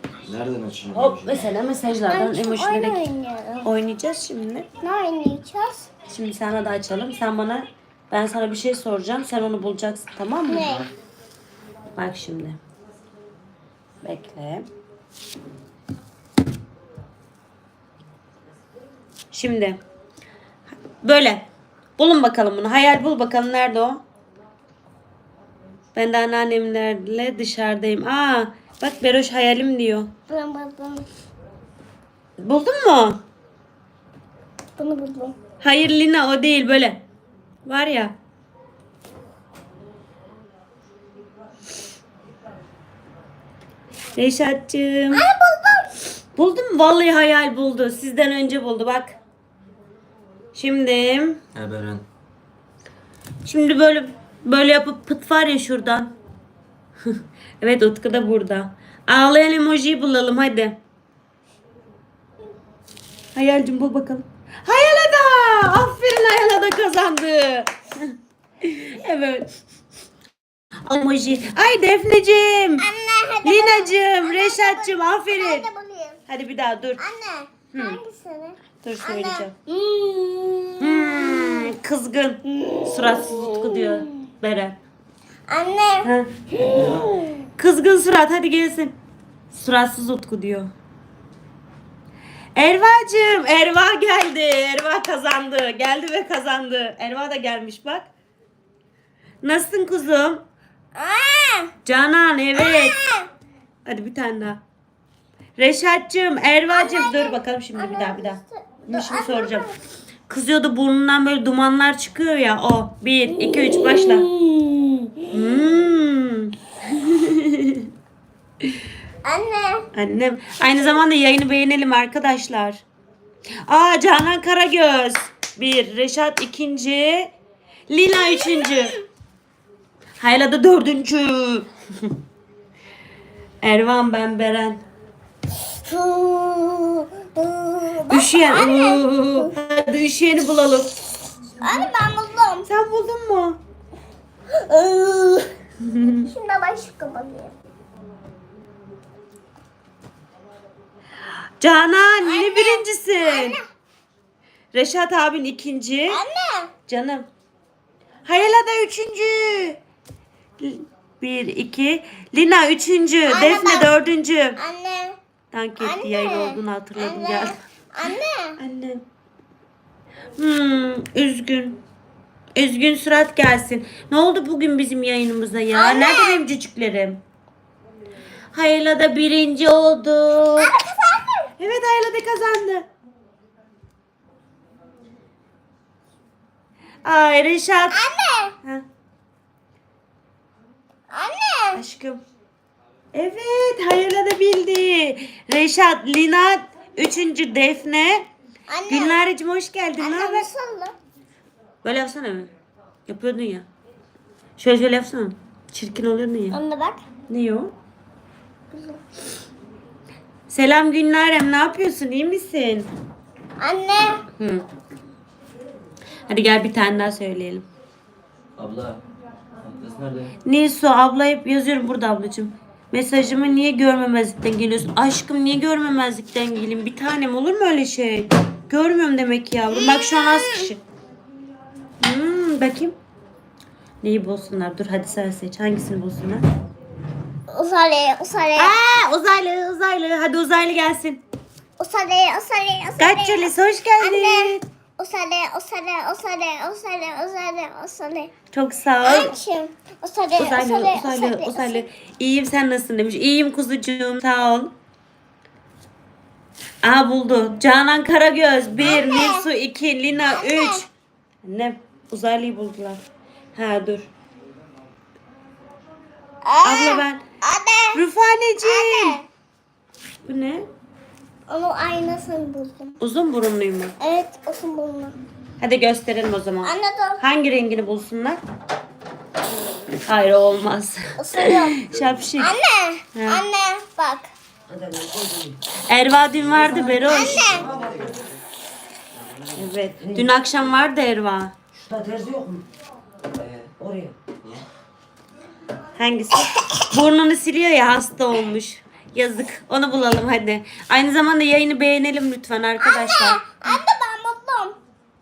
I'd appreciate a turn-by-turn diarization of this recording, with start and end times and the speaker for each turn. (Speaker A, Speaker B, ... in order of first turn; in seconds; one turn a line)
Speaker A: 0.2-1.5
Speaker B: 0.9-3.0
Speaker C: 2.1-3.7
Speaker B: 3.6-4.7
Speaker C: 4.8-5.9
Speaker B: 6.1-10.8
Speaker C: 10.5-10.9
Speaker B: 11.9-12.6
Speaker B: 14.0-14.7
Speaker B: 19.3-19.8
Speaker B: 20.9-21.4
Speaker B: 22.0-24.0
Speaker B: 25.9-30.1
Speaker C: 30.3-31.1
Speaker B: 32.4-33.2
Speaker C: 34.8-35.4
Speaker B: 35.6-37.0
Speaker B: 37.6-38.1
Speaker B: 44.1-45.3
Speaker C: 45.1-46.0
Speaker B: 46.4-49.1
Speaker B: 50.5-51.4
Speaker A: 51.5-52.0
Speaker B: 53.4-56.1
Speaker B: 57.1-60.8
Speaker B: 63.3-68.1
Speaker B: 68.6-69.5
Speaker B: 70.8-72.9
Speaker C: 72.8-76.2
Speaker B: 73.4-75.7
Speaker B: 76.3-77.0
Speaker C: 77.0-81.7
Speaker B: 77.7-78.0
Speaker B: 78.8-79.5
Speaker B: 80.8-84.8
Speaker C: 82.5-84.1
Speaker C: 85.5-87.5
Speaker B: 86.0-86.3
Speaker B: 87.6-89.0
Speaker B: 89.5-90.7
Speaker B: 92.5-98.1
Speaker B: 99.4-100.4
Speaker C: 100.9-101.7
Speaker B: 101.8-103.0
Speaker C: 102.5-103.3
Speaker B: 103.8-104.6
Speaker B: 105.6-109.7
Speaker C: 106.7-109.7
Speaker B: 110.3-114.3
Speaker C: 113.4-115.3
Speaker B: 115.3-117.9
Speaker C: 119.2-119.9
Speaker B: 119.9-122.8
Speaker B: 123.7-127.3
Speaker B: 127.9-129.0
Speaker B: 130.2-132.1
Speaker B: 133.6-134.8
Speaker C: 135.6-139.5
Speaker B: 138.1-140.9
Speaker C: 141.6-142.7
Speaker B: 142.7-143.6
Speaker C: 144.5-145.5
Speaker B: 145.8-146.2
Speaker C: 146.0-147.5
Speaker B: 151.6-153.6
Speaker C: 152.2-153.6
Speaker B: 154.7-156.2
Speaker C: 156.1-156.7
Speaker B: 156.9-157.3
Speaker B: 158.2-159.8
Speaker B: 160.6-164.6
Speaker C: 163.3-163.9
Speaker C: 164.6-165.2
Speaker B: 165.5-167.6
Speaker C: 165.8-168.6
Speaker B: 168.6-169.0
Speaker B: 170.3-171.8
Speaker B: 172.6-177.2
Speaker C: 175.7-176.4
Speaker B: 178.5-180.7
Speaker C: 180.6-181.5
Speaker B: 181.6-182.9
Speaker B: 187.0-188.0
Speaker C: 187.9-188.5
Speaker C: 191.1-191.8
Speaker B: 191.7-192.2
Speaker B: 193.1-198.3
Speaker C: 198.7-199.1
Speaker B: 198.9-200.5
Speaker C: 200.0-200.9
Speaker B: 201.8-202.5
Speaker B: 203.1-203.7
Speaker B: 204.6-206.6
Speaker C: 206.5-207.0
Speaker B: 207.3-207.7
Speaker C: 208.7-209.0
Speaker B: 210.5-212.9
Speaker C: 213.6-214.2
Speaker B: 214.4-214.6
Speaker B: 216.3-217.7
Speaker A: 218.6-219.0
Speaker A: 219.6-220.3
Speaker B: 220.4-230.8
Speaker C: 229.7-230.7
Speaker B: 232.0-232.9
Speaker B: 234.0-236.4
Speaker C: 237.5-238.8
Speaker B: 238.6-241.2
Speaker C: 241.8-248.3
Speaker B: 243.0-244.6
Speaker B: 248.5-249.3
Speaker C: 249.0-251.8
Speaker B: 250.4-254.7
Speaker B: 256.8-260.9
Speaker C: 258.8-259.4
Speaker C: 260.3-260.9
Speaker B: 261.4-263.0
Speaker B: 263.5-264.1
Speaker C: 266.4-268.0
Speaker B: 266.6-267.2
Speaker B: 267.9-269.2
Speaker C: 268.6-269.2
Speaker B: 270.2-270.7
Speaker C: 271.5-272.9
Speaker B: 273.0-273.9
Speaker C: 274.0-275.2
Speaker B: 275.6-278.4
Speaker C: 276.6-277.2
Speaker B: 280.0-282.6
Speaker C: 281.2-284.3
Speaker B: 283.1-283.4
Speaker D: 284.7-285.6
Speaker B: 285.9-287.5
Speaker D: 286.6-288.3
Speaker A: 286.6-288.2
Speaker C: 287.0-287.7
Speaker A: 289.2-289.5
Speaker B: 289.5-291.5
Speaker D: 290.0-290.3
Speaker D: 291.7-292.6
Speaker A: 293.4-293.7
Speaker D: 293.7-294.1
Speaker B: 295.9-303.8
Speaker C: 302.8-304.8